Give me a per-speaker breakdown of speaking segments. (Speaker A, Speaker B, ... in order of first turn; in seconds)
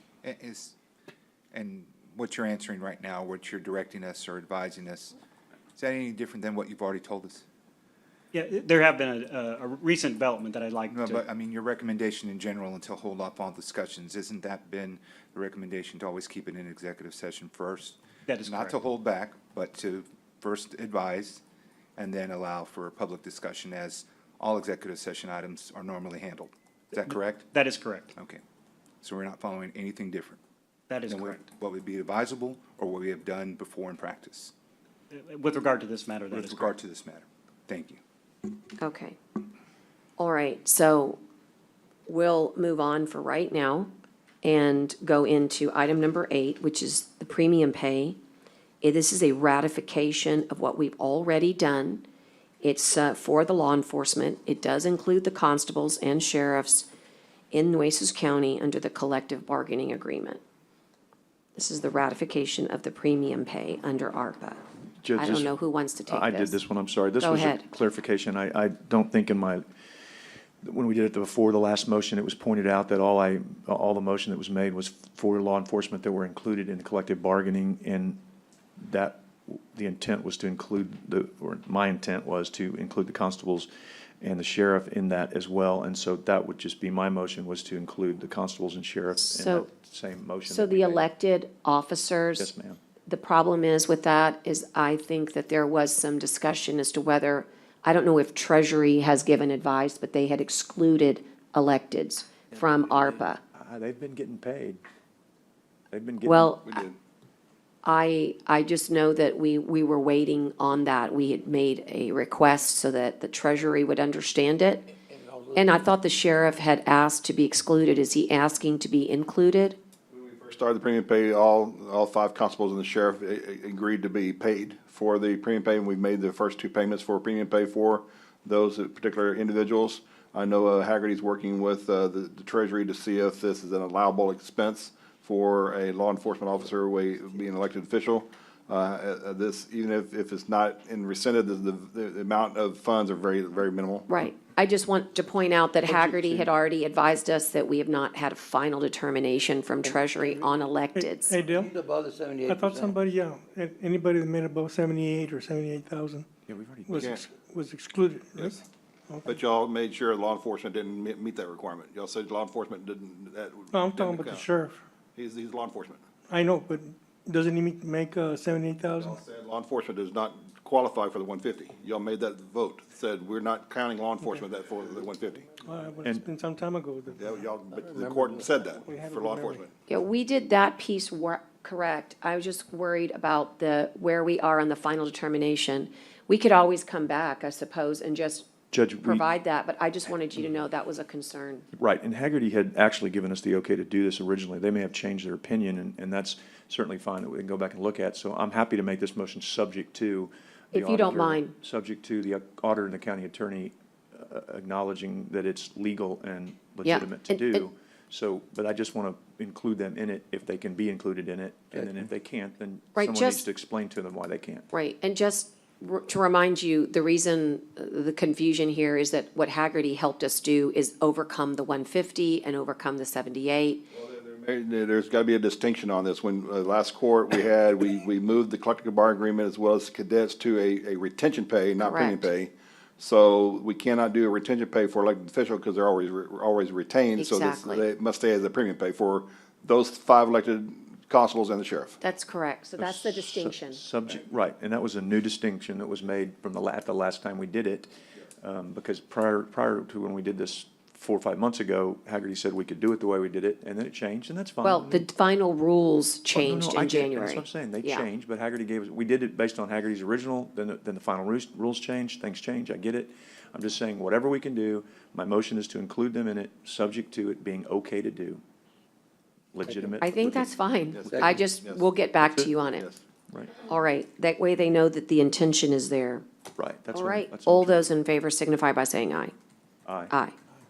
Speaker A: 0.2-0.7, 1.5-5.1, 5.8-7.4, 10.9-21.4, 22.0-27.5, 28.1-28.4, 29.0-30.4, 31.1-34.5, 36.3-38.0
Speaker B: 8.3-11.2, 18.3-18.8, 27.1-28.1, 30.9-31.4, 35.1-36.8
Speaker C: 38.8-39.2, 40.2-41.2, 42.1-43.9, 44.4-48.2, 48.8-52.0, 52.6-56.9, 57.5-60.4, 61.5-64.6, 65.1-66.6, 67.2-67.6, 89.2-89.7, 90.5-92.5, 93.1-103.4, 106.2-106.7, 107.8-115.0, 115.5-119.8, 144.1-151.3, 179.9-188.5, 189.0-191.7, 200.7-201.6, 206.8-207.7, 212.9-213.4, 214.7-223.8, 231.8-232.3, 237.2-237.9, 242.0-243.8, 254.6-258.1, 270.0-272.9, 273.6-276.2, 276.9-279.3, 280.1-280.3
Speaker D: 65.0-65.5, 66.1-69.6, 70.6-78.2, 78.8-83.7, 84.2-91.0, 92.4-92.8, 103.5-104.8, 105.9-106.6, 145.9-146.5, 156.5-157.0, 188.7-189.2, 191.7-214.7, 242.8-255.1, 256.3-268.4, 269.5-270.5, 276.6-277.9, 279.9-280.1
Speaker E: 106.6-107.0, 120.1-144.1, 156.9-157.2, 159.2-164.5, 165.2-166.0, 169.0-175.5, 177.2-179.7, 223.9-242.0, 270.9-271.9, 272.6-273.0
Speaker F: 115.1-115.6, 151.4-152.9
Speaker G: 151.0-151.8, 152.4-156.3, 156.9-159.3, 163.7-164.8, 166.3-169.2, 174.2-174.5, 175.6-177.3, 178.8-179.6